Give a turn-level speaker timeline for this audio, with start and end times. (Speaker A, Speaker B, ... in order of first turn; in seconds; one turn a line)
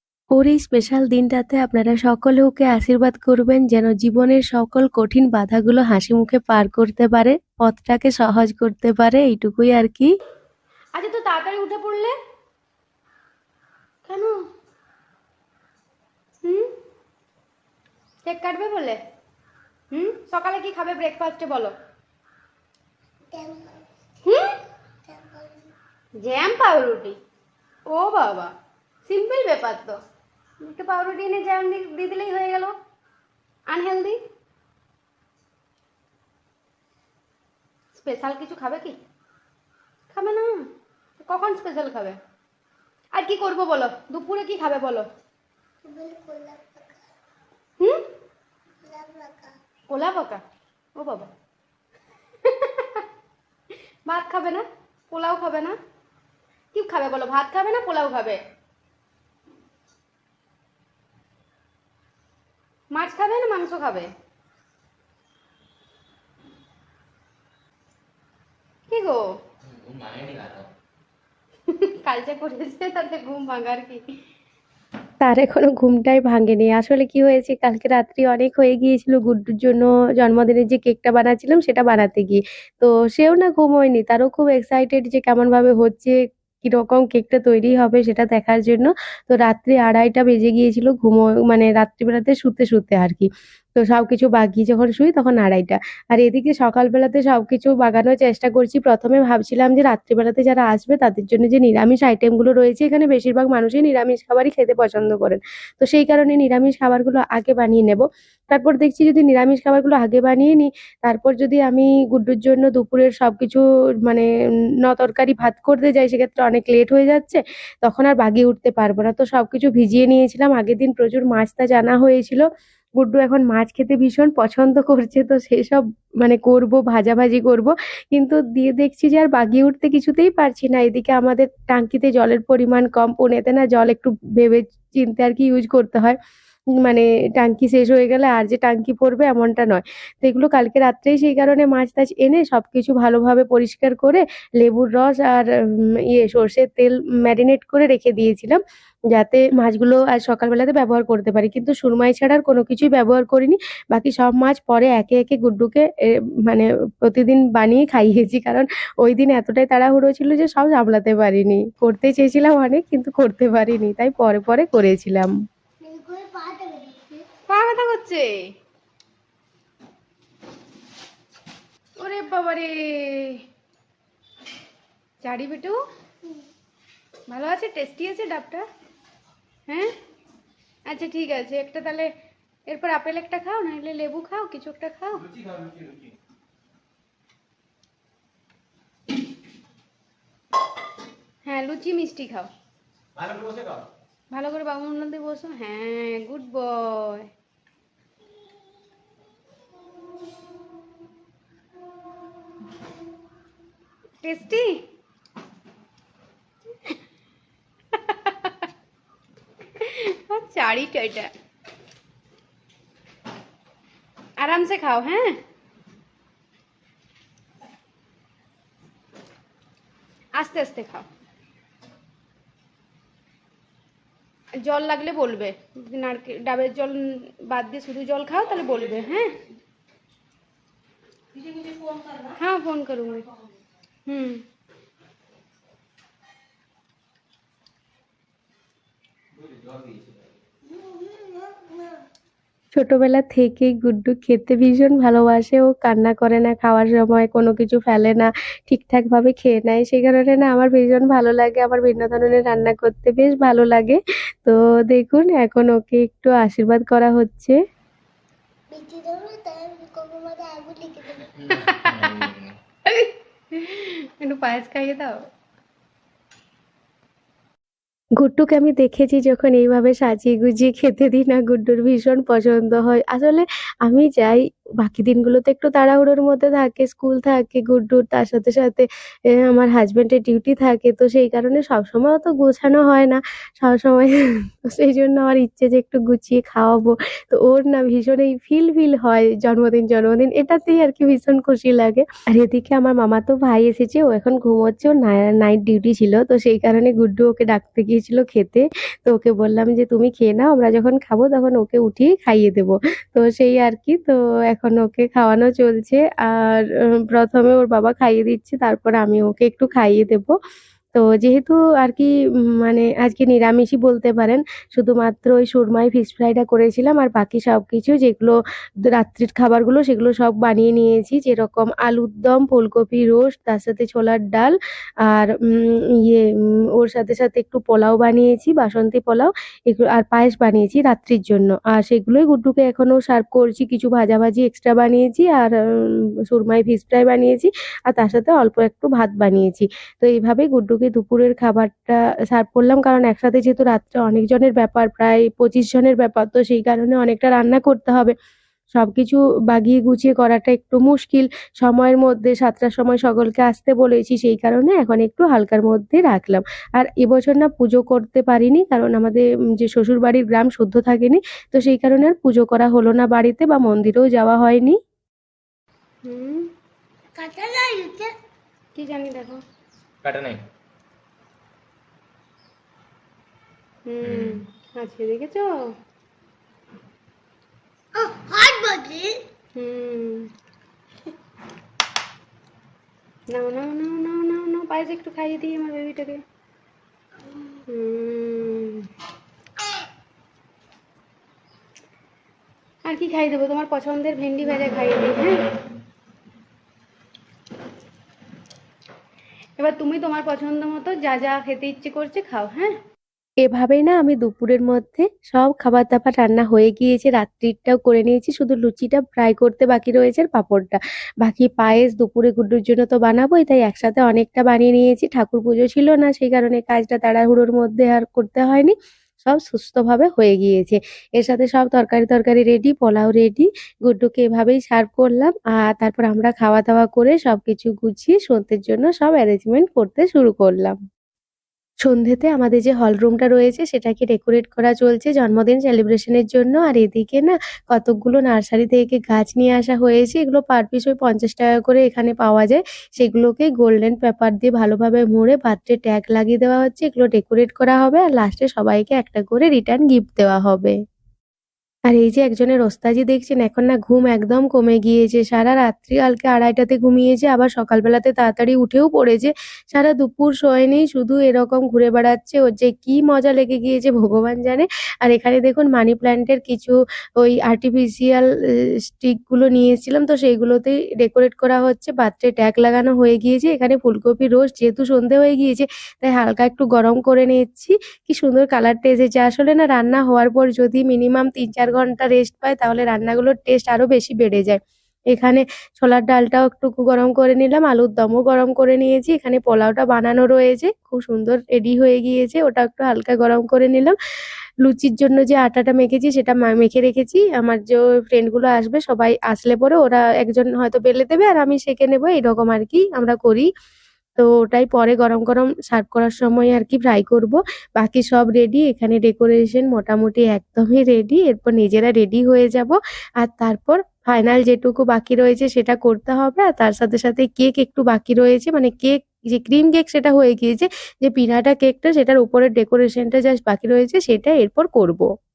Speaker A: 0.3-10.1
Speaker B: 10.9-12.1
Speaker B: 14.1-14.4
Speaker B: 16.4-16.7
Speaker B: 18.2-19.0
Speaker B: 19.9-21.7
Speaker C: 23.3-23.8
Speaker B: 24.2-24.5
Speaker C: 25.0-25.7
Speaker B: 26.2-27.2
Speaker B: 27.9-28.5
Speaker B: 29.1-29.9
Speaker B: 30.6-32.7
Speaker B: 33.7-34.2
Speaker B: 37.9-39.0
Speaker B: 40.1-40.6
Speaker B: 41.2-42.2
Speaker B: 43.1-45.1
Speaker C: 45.8-47.1
Speaker C: 48.8-49.6
Speaker B: 49.9-50.4
Speaker B: 51.0-51.3
Speaker B: 52.4-53.0
Speaker B: 54.1-55.8
Speaker B: 56.7-58.4
Speaker B: 62.9-64.1
Speaker B: 68.9-69.2
Speaker D: 69.7-70.7
Speaker B: 71.7-74.0
Speaker A: 75.2-114.3
Speaker A: 114.8-122.5
Speaker A: 123.0-136.2
Speaker A: 136.8-148.6
Speaker A: 149.1-155.9
Speaker A: 156.4-165.3
Speaker C: 165.8-167.3
Speaker B: 167.5-168.5
Speaker B: 172.0-173.4
Speaker B: 175.2-175.8
Speaker C: 176.2-176.5
Speaker B: 177.3-178.7
Speaker B: 180.9-182.1
Speaker B: 182.7-185.3
Speaker B: 191.4-192.5
Speaker D: 193.2-193.7
Speaker B: 194.3-197.3
Speaker B: 204.2-204.8
Speaker B: 207.9-208.5
Speaker B: 209.8-211.3
Speaker B: 214.4-215.4
Speaker B: 220.4-221.1
Speaker B: 224.6-229.3
Speaker B: 232.4-233.3
Speaker B: 234.1-234.4
Speaker C: 240.7-241.8
Speaker A: 242.7-257.6
Speaker C: 258.7-261.4
Speaker D: 261.4-262.5
Speaker B: 261.5-262.2
Speaker B: 262.9-265.1
Speaker A: 268.2-310.3
Speaker A: 310.9-348.1
Speaker A: 348.7-364.8
Speaker B: 366.0-366.5
Speaker C: 367.1-368.1
Speaker B: 368.8-369.4
Speaker D: 370.0-370.4
Speaker B: 373.9-375.5
Speaker C: 377.9-379.2
Speaker B: 379.6-380.3
Speaker B: 383.3-386.2
Speaker B: 387.7-388.9
Speaker B: 392.9-395.4
Speaker B: 399.6-402.8
Speaker A: 403.4-430.8
Speaker A: 431.8-450.8
Speaker A: 451.9-468.3
Speaker A: 468.9-484.6
Speaker A: 485.1-493.9
Speaker A: 494.6-503.5
Speaker A: 504.2-525.1